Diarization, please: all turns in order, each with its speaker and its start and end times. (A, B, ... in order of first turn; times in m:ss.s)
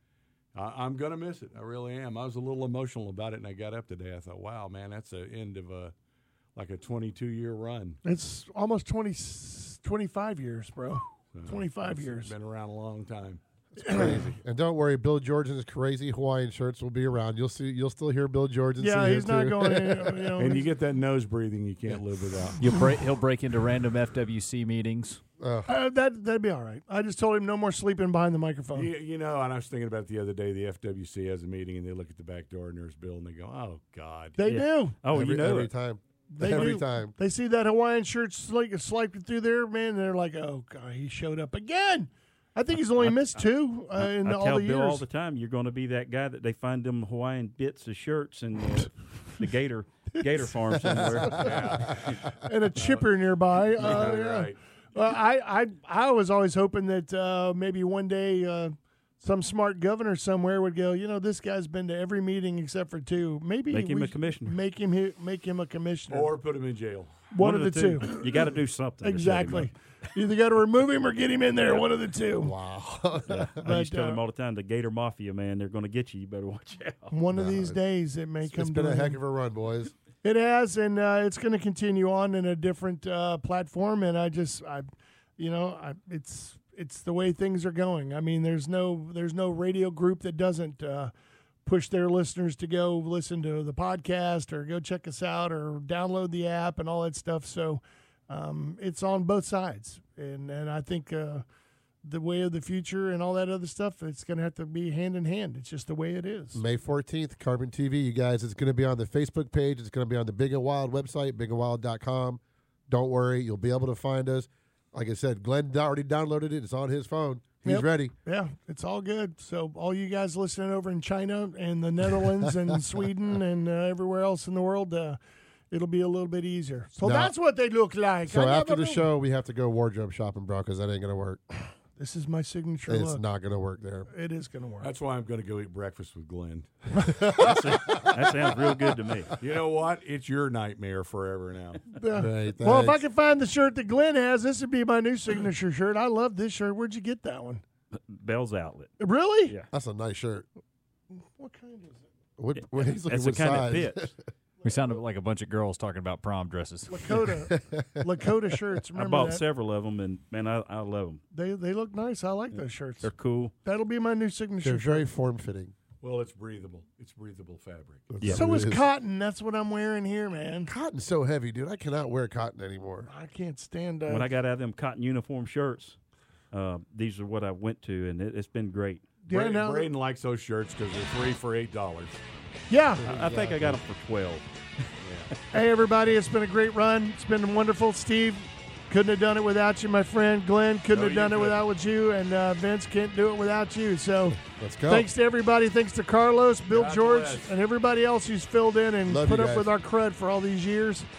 0:00.5-0:05.9 A
0:06.6-0:08.0 A
0:08.0-0:12.3 B
0:11.3-0:14.3 A
0:13.8-0:14.2 B
0:13.9-0:20.4 C
0:18.8-0:20.7 B
0:20.4-0:22.6 A
0:22.6-0:25.2 D
0:25.4-0:25.7 C
0:25.7-0:28.9 B
0:28.7-0:34.4 A
0:34.4-0:35.0 B
0:34.5-0:35.7 E
0:35.1-0:37.2 C
0:36.3-0:45.0 B
0:44.0-0:52.1 E
0:50.2-0:50.5 B
0:51.2-0:51.6 B
0:51.3-0:52.2 A
0:52.4-1:06.3 B
0:52.8-0:53.0 A
0:53.8-0:54.6 A
1:03.7-1:04.6 E
1:06.1-1:07.3 A
1:07.3-1:08.5 B
1:07.4-1:09.7 E
1:09.0-1:12.5 B
1:12.4-1:13.6 C
1:13.3-1:17.1 E
1:13.6-1:14.2 B
1:17.1-1:19.2 B
1:17.3-1:17.8 C
1:18.4-1:19.9 C
1:20.2-1:24.9 B
1:25.4-1:31.1 B
1:31.6-1:41.4 B
1:42.0-1:46.6 B
1:46.5-1:58.1 C
1:57.6-2:05.2 B
2:05.7-2:09.1 B
2:07.0-2:07.3 C
2:08.3-2:11.4 C
2:12.0-2:13.2 B
2:12.9-2:14.1 C
2:14.1-2:14.9 B
2:14.8-2:16.7 A
2:17.1-2:18.3 C
2:17.4-2:19.4 E
2:19.4-2:21.8 A
2:21.9-2:27.6 B
2:22.1-2:23.0 C
2:28.0-2:28.9 E
2:29.0-2:29.5 B
2:29.7-2:30.5 C
2:31.1-2:32.0 B
2:32.4-2:34.1 C
2:32.6-2:34.1 E
2:34.6-2:37.2 D
2:36.9-2:39.4 B
2:37.5-2:38.3 C
2:39.0-2:41.2 E
2:41.3-2:43.1 B
2:43.0-2:43.5 E
2:43.6-2:45.1 B
2:44.6-2:45.7 C
2:46.0-2:48.1 A
2:48.1-2:48.9 C
2:48.3-2:50.7 B
2:50.7-2:53.1 C
2:53.1-2:54.3 B
2:54.1-2:56.0 E
2:56.5-2:59.1 E
2:59.2-2:59.9 B
2:59.3-3:02.2 A
3:02.7-3:03.0 B
3:03.0-3:04.5 E
3:03.1-3:03.8 C
3:05.0-3:05.3 A
3:05.5-3:21.1 B
3:10.9-3:11.6 A
3:14.4-3:15.1 C
3:16.7-3:17.5 A
3:19.1-3:19.7 C